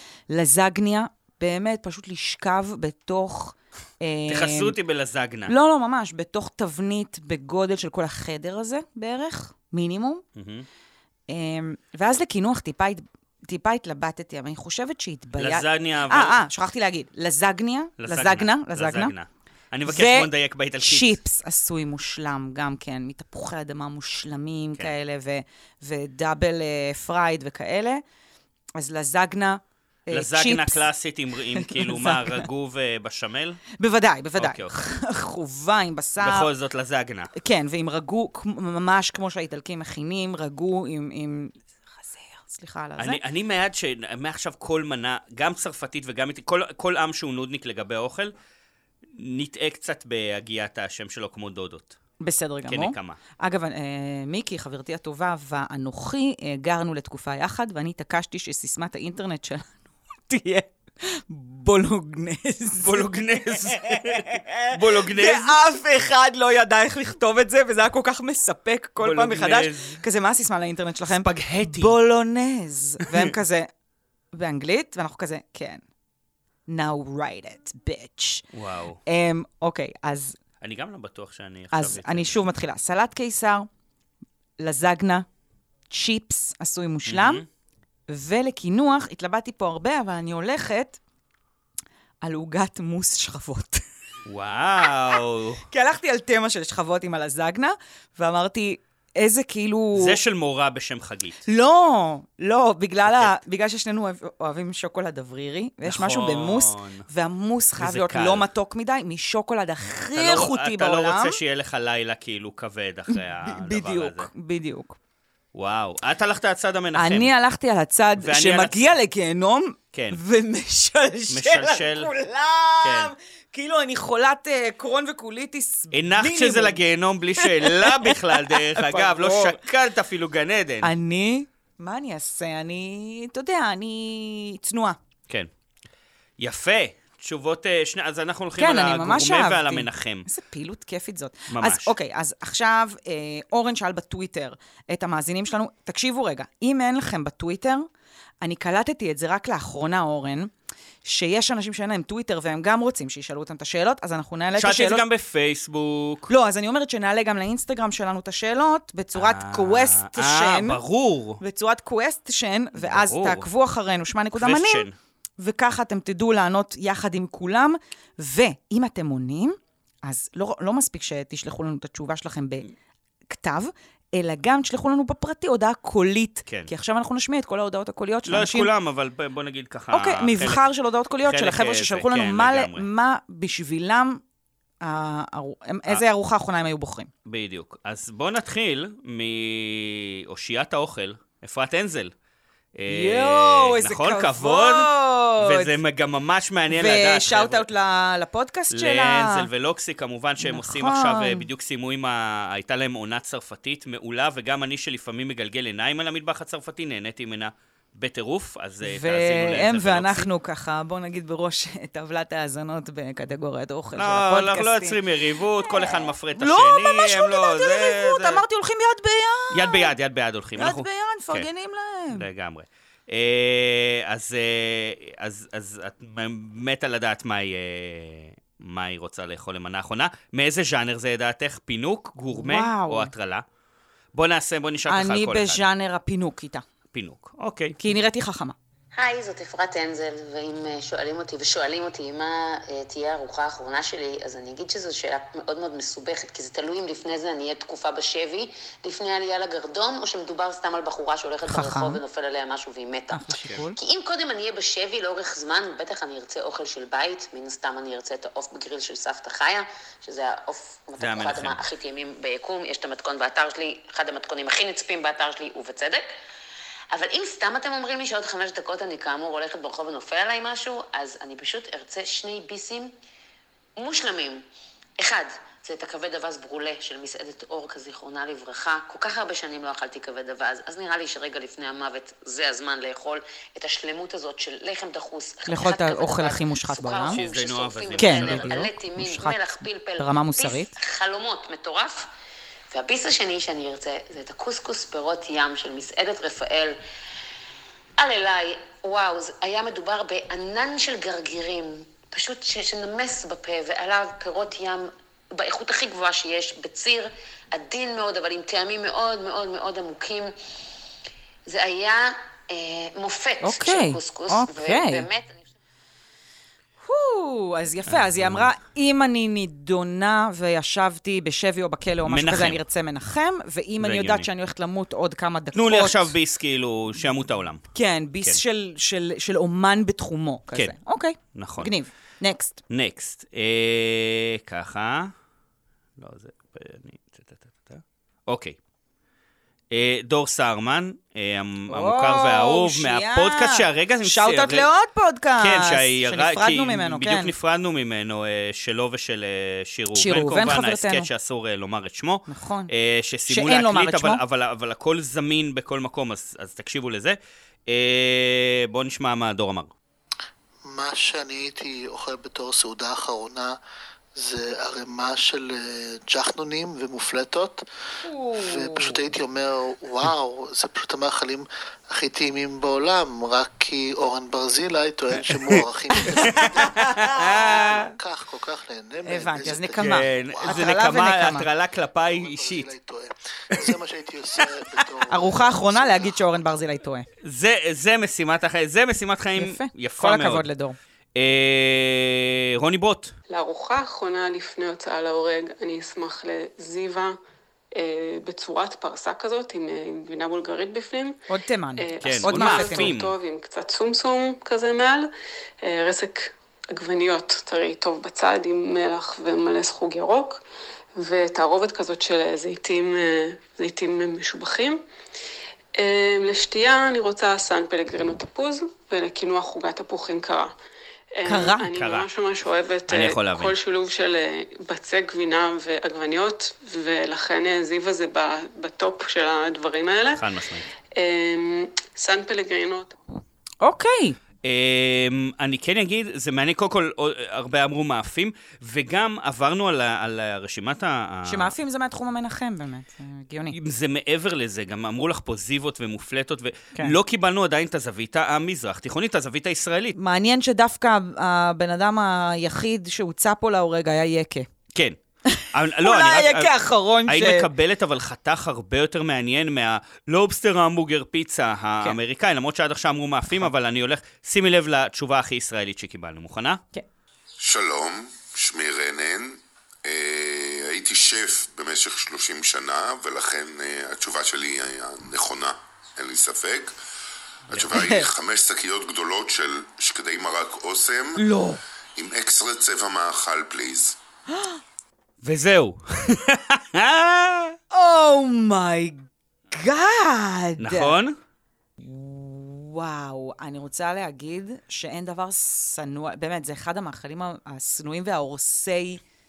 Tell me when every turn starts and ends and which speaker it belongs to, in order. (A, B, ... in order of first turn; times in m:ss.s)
0:00.3-0:04.8 A
0:04.3-0:05.5 B
0:05.5-0:10.2 A
0:10.4-0:10.7 B
0:11.3-0:19.1 A
0:15.4-0:16.4 B
0:18.0-0:21.2 B
0:19.9-0:28.0 A
0:28.8-0:30.9 A
0:30.1-0:33.6 B
0:31.6-0:32.5 A
0:33.8-0:36.5 A
0:34.4-0:34.8 B
0:36.2-0:37.3 B
0:37.4-0:43.2 A
0:43.0-0:48.3 B
0:49.2-0:52.0 B
0:52.2-1:13.7 A
0:52.7-0:53.2 B
1:02.8-1:05.6 B
1:09.0-1:10.0 B
1:11.1-1:12.0 B
1:13.0-1:13.3 B
1:14.3-1:15.8 A
1:16.7-1:18.4 A
1:18.5-1:19.0 B
1:19.1-1:20.4 A
1:20.6-1:22.5 B
1:21.7-1:23.7 A
1:24.6-1:25.3 A
1:25.9-1:27.4 A
1:27.1-1:27.5 B
1:28.1-1:31.0 A
1:32.2-1:33.8 A
1:34.3-1:35.6 B
1:35.7-1:40.2 A
1:39.9-1:41.4 B
1:41.5-1:51.4 A
1:43.1-1:43.4 B
1:45.8-1:47.1 B
1:47.8-1:48.5 B
1:50.1-1:54.3 B
1:53.1-1:55.0 A
1:55.5-1:57.3 B
1:57.0-2:06.8 A
1:58.2-1:58.9 B
1:59.9-2:00.2 B
2:01.3-2:02.1 B
2:02.8-2:03.1 B
2:05.9-2:10.9 B
2:07.4-2:09.6 A
2:10.8-2:15.0 A
2:16.4-2:20.3 B
2:18.6-2:27.9 A
2:21.5-2:21.9 B
2:28.4-2:30.5 A
2:31.0-2:35.0 A
2:34.6-2:36.3 B
2:36.3-2:40.8 A
2:39.2-2:41.4 B
2:41.4-2:44.9 A
2:42.8-2:43.5 B
2:44.4-2:45.0 B
2:45.4-2:52.7 A
2:53.3-2:58.7 A
2:56.5-2:56.7 B
2:58.2-3:00.7 B
2:59.9-3:04.2 A
3:01.2-3:02.9 B
3:04.8-3:07.1 A
3:07.2-3:12.1 B
3:12.8-3:17.7 B
3:12.9-3:15.8 A
3:16.7-3:19.5 A
3:18.7-3:30.3 B
3:20.4-3:21.5 A
3:28.8-3:35.0 A
3:34.0-3:38.4 B
3:35.6-3:39.9 A
3:39.5-3:41.5 B
3:40.6-3:42.3 A
3:42.1-3:53.4 B
3:52.3-3:53.1 A
3:54.1-3:55.6 B
3:54.9-3:56.6 A
3:56.9-3:57.8 B
3:57.8-3:58.6 A
3:58.9-4:26.1 C
4:11.5-4:12.0 A
4:13.1-4:13.8 A
4:21.0-4:21.6 B
4:26.9-4:32.9 C
4:33.8-4:34.4 C
4:35.0-4:52.1 C
4:45.5-4:47.2 A
4:47.1-4:48.7 B
4:48.0-4:49.4 A
4:50.0-4:50.7 A
4:52.7-4:56.8 C
4:58.0-5:10.3 C
5:11.5-5:15.4 C
5:13.4-5:15.0 A
5:16.8-5:26.1 A
5:17.9-5:18.5 B
5:22.0-5:22.6 B
5:23.8-5:24.3 B
5:25.5-5:27.7 B
5:27.7-5:32.6 A
5:31.3-5:31.7 B
5:32.7-5:35.1 B
5:36.0-5:38.6 B
5:39.7-5:44.7 B
5:41.7-5:47.3 A
5:45.4-5:59.7 B
5:49.9-5:51.1 A
5:52.3-5:52.7 A
5:53.3-5:54.2 A
6:00.7-6:03.6 D
6:04.2-6:07.6 D
6:08.0-6:09.0 A
6:08.4-6:20.8 D
6:15.2-6:17.9 B
6:16.0-6:17.8 A
6:19.0-6:21.5 A
6:19.8-6:22.7 B
6:22.0-6:26.3 D
6:24.4-6:24.9 B
6:25.1-6:27.1 A
6:27.2-6:30.5 B
6:29.4-6:30.8 A
6:31.2-6:33.1 B
6:33.3-6:37.2 E
6:37.7-6:41.2 E
6:41.3-6:42.9 A
6:41.8-6:45.1 E
6:42.0-6:43.2 B
6:45.6-6:50.4 E
6:51.0-6:54.8 E
6:55.8-7:00.5 E
7:01.2-7:10.2 E
7:01.2-7:01.7 A
7:01.7-7:02.1 B
7:02.9-7:03.6 B
7:10.1-7:10.7 B
7:10.9-7:13.0 E
7:13.6-7:14.2 A
7:14.4-7:21.6 B
7:21.2-7:23.6 A
7:23.5-7:30.0 B
7:30.0-7:34.5 A
7:35.3-7:37.5 A
7:35.5-7:36.5 B
7:37.1-7:46.6 B
7:47.4-7:56.8 F
7:57.5-8:01.2 F
7:57.7-7:58.1 A
8:01.2-8:01.6 A
8:02.0-8:04.0 F
8:04.3-8:04.6 A
8:05.2-8:07.6 B
8:07.7-8:11.0 A
8:10.6-8:11.2 B
8:11.8-8:19.0 A